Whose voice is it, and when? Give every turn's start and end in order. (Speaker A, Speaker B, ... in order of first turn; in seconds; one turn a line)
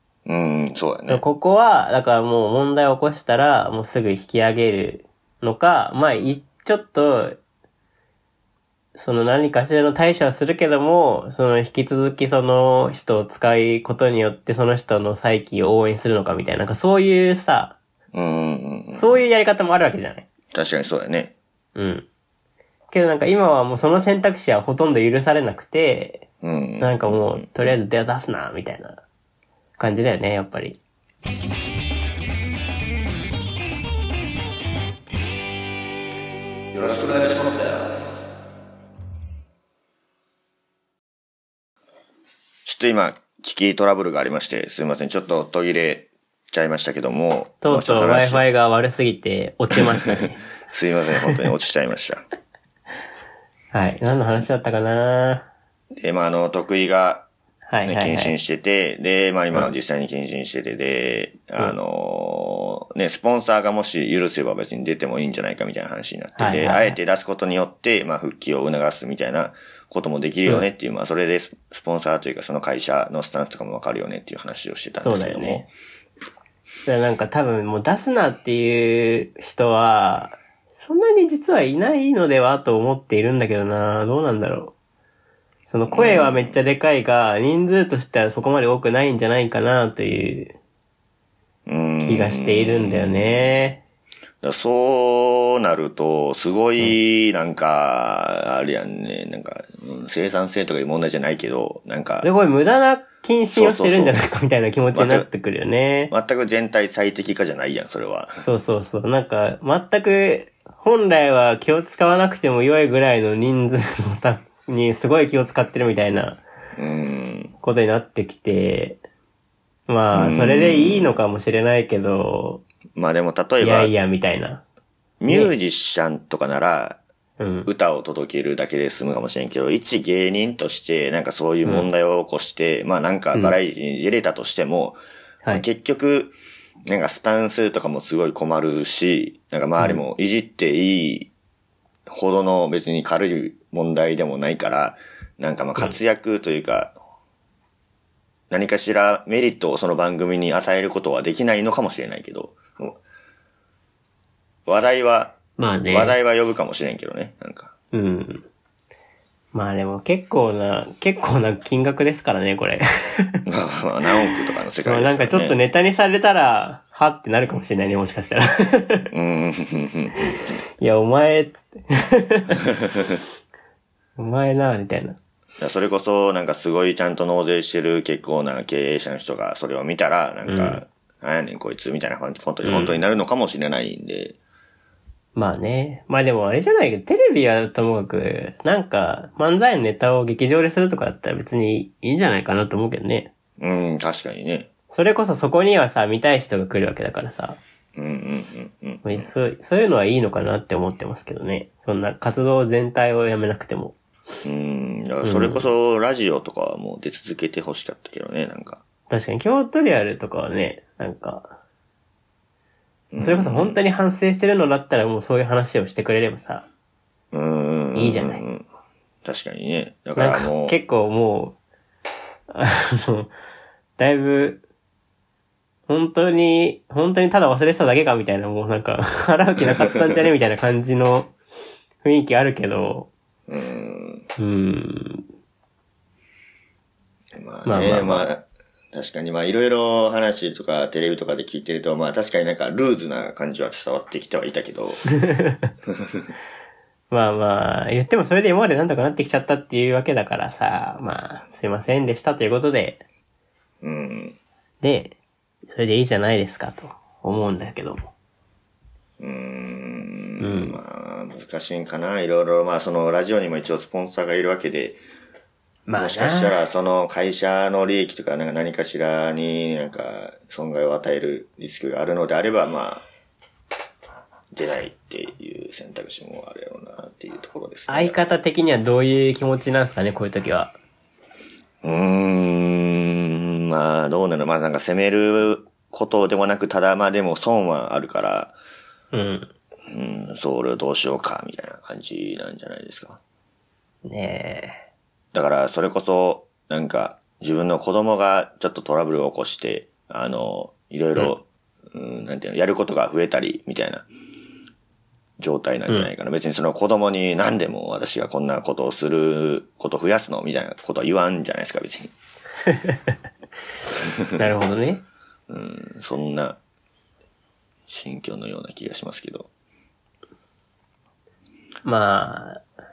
Speaker A: 0.3-1.2
Speaker B: 1.1-7.4
Speaker B: 8.9-17.8
Speaker A: 18.1-19.2
Speaker B: 18.9-20.3
Speaker A: 20.5-21.3
Speaker B: 21.8-22.1
Speaker B: 22.9-26.3
Speaker A: 26.4-27.5
Speaker B: 26.8-29.0
Speaker B: 29.8-30.8
Speaker A: 36.7-38.3
Speaker A: 42.6-48.4
Speaker B: 47.6-50.4
Speaker A: 50.7-52.2
Speaker B: 53.7-55.5
Speaker A: 56.0-57.3
Speaker B: 57.7-58.4
Speaker A: 57.9-75.7
Speaker B: 66.4-67.0
Speaker B: 75.0-75.7
Speaker B: 76.9-84.7
Speaker B: 85.7-90.6
Speaker A: 85.9-86.6
Speaker A: 91.7-93.7
Speaker B: 92.0-93.8
Speaker A: 94.4-102.3
Speaker B: 102.2-106.1
Speaker A: 103.5-104.2
Speaker A: 104.9-105.3
Speaker A: 106.1-108.4
Speaker B: 108.4-116.4
Speaker A: 116.8-117.5
Speaker B: 117.6-119.0
Speaker B: 119.9-122.6
Speaker A: 120.1-121.2
Speaker A: 123.0-123.9
Speaker B: 123.6-124.6
Speaker A: 125.2-127.0
Speaker B: 125.3-125.5
Speaker B: 127.4-127.7
Speaker A: 127.7-135.0
Speaker A: 135.5-136.3
Speaker A: 136.9-141.3
Speaker A: 142.1-146.9
Speaker A: 148.5-153.0
Speaker A: 154.7-155.4
Speaker B: 155.6-156.2
Speaker A: 155.9-157.7
Speaker B: 157.9-158.5
Speaker B: 159.5-163.4
Speaker A: 163.5-165.6
Speaker B: 164.8-169.1
Speaker A: 169.1-170.3
Speaker B: 170.2-172.6
Speaker B: 174.2-175.2
Speaker A: 175.6-184.4
Speaker B: 180.5-180.8
Speaker B: 182.6-183.0
Speaker B: 185.3-193.3
Speaker A: 193.6-194.7
Speaker B: 194.9-197.6
Speaker A: 198.0-199.3
Speaker B: 199.0-204.0
Speaker A: 204.4-208.8
Speaker B: 205.2-205.7
Speaker B: 209.1-211.6
Speaker A: 213.1-213.8
Speaker B: 213.2-216.7
Speaker A: 217.3-218.7
Speaker B: 217.9-218.4
Speaker A: 219.2-220.8
Speaker B: 220.2-221.6
Speaker B: 222.5-223.3
Speaker B: 224.0-224.6
Speaker B: 225.9-231.3
Speaker B: 232.0-233.1
Speaker A: 233.5-234.3
Speaker B: 234.4-235.2
Speaker A: 237.4-245.1
Speaker B: 237.7-238.3
Speaker B: 245.2-245.6
Speaker B: 247.1-253.0
Speaker A: 253.8-254.4
Speaker B: 254.8-258.1
Speaker A: 259.2-265.0
Speaker B: 260.4-260.8
Speaker B: 265.9-266.6
Speaker A: 266.0-273.0
Speaker A: 274.5-278.2
Speaker B: 277.9-280.8
Speaker A: 281.8-288.5
Speaker B: 289.1-289.5
Speaker A: 289.9-293.2
Speaker B: 294.1-294.8
Speaker A: 295.3-304.1
Speaker A: 305.4-312.1
Speaker B: 314.4-315.0
Speaker A: 315.5-316.6
Speaker A: 317.9-319.5
Speaker B: 321.9-322.6